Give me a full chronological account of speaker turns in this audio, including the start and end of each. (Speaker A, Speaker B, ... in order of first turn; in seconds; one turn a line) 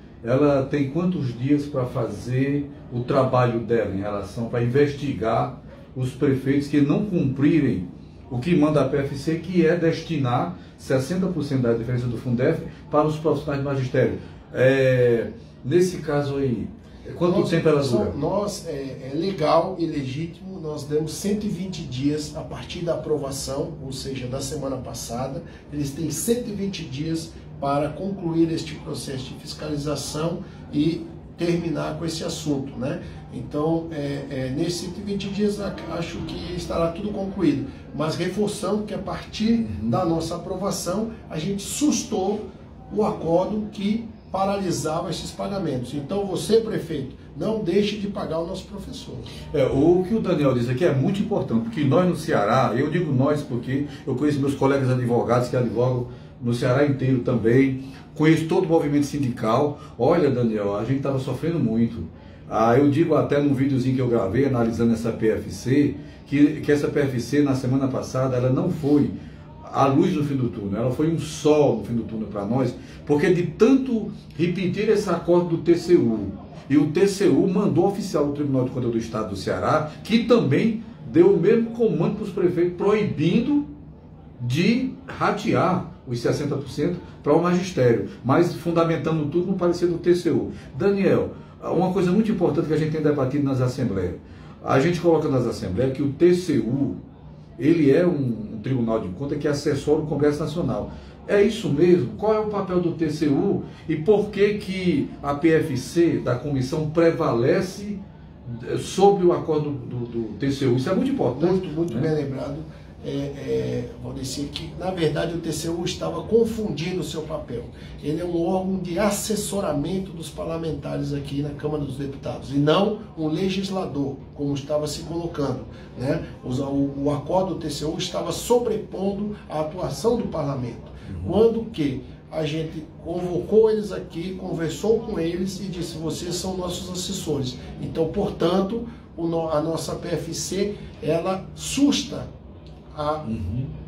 Speaker A: 0.2-18.1
Speaker B: 17.2-49.3
Speaker A: 39.6-40.0
Speaker A: 49.5-83.7
Speaker A: 84.4-97.0
Speaker A: 97.6-112.1
Speaker B: 111.3-142.3
Speaker A: 131.1-131.3
Speaker B: 142.9-143.3
Speaker A: 143.2-143.7